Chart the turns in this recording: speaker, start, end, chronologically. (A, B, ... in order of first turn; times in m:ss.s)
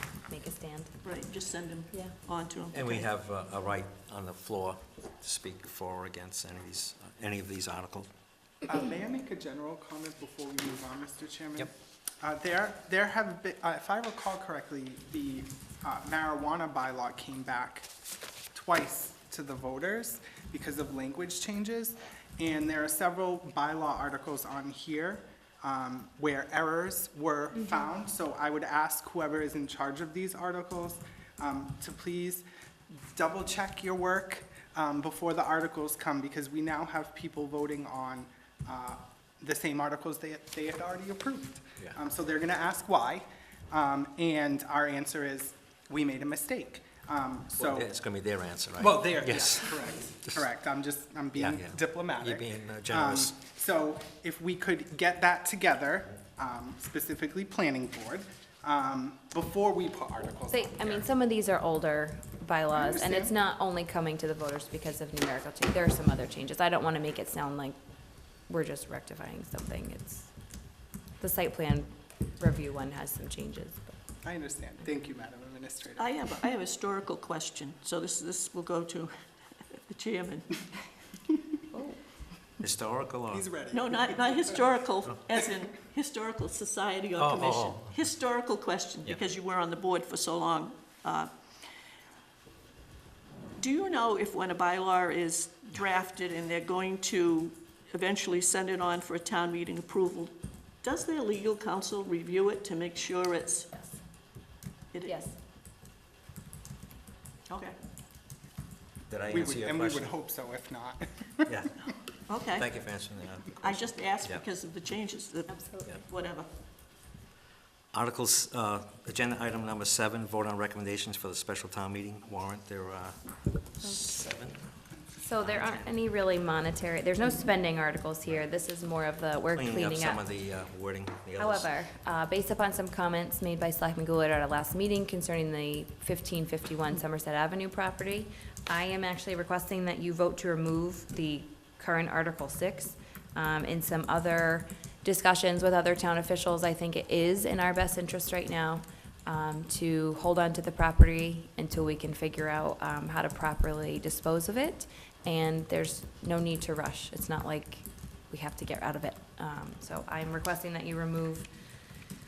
0:00.3-0:01.0 A
0:01.0-0:03.1 B
0:02.7-0:08.1 C
0:08.6-0:17.9 D
0:18.5-0:47.9 D
0:27.6-0:27.8 A
0:47.5-0:50.4 C
0:48.8-1:01.1 D
0:51.3-0:53.4 C
1:00.5-1:07.8 A
1:02.7-1:03.3 D
1:08.5-1:10.3 A
1:11.2-1:13.9 A
1:14.2-1:16.2 D
1:16.0-1:19.1 B
1:19.7-1:20.6 B
1:21.7-1:22.0 A
1:22.6-1:23.4 C
1:23.3-1:24.6 D
1:23.7-1:31.3 B
1:27.2-1:28.0 C
1:33.6-1:43.7 B
1:44.9-1:45.2 B
1:45.0-1:45.3 A
1:47.5-1:47.8 B
1:49.1-1:50.1 C
1:49.3-1:51.6 D
1:51.5-1:51.9 C
1:52.3-1:52.7 B
1:52.5-1:54.4 C
1:53.6-1:56.5 B
1:55.5-1:55.9 A
1:57.9-2:04.7 C
2:05.2-2:10.2 A
2:05.4-2:05.9 C
2:09.5-2:11.7 C
2:11.4-2:41.5 A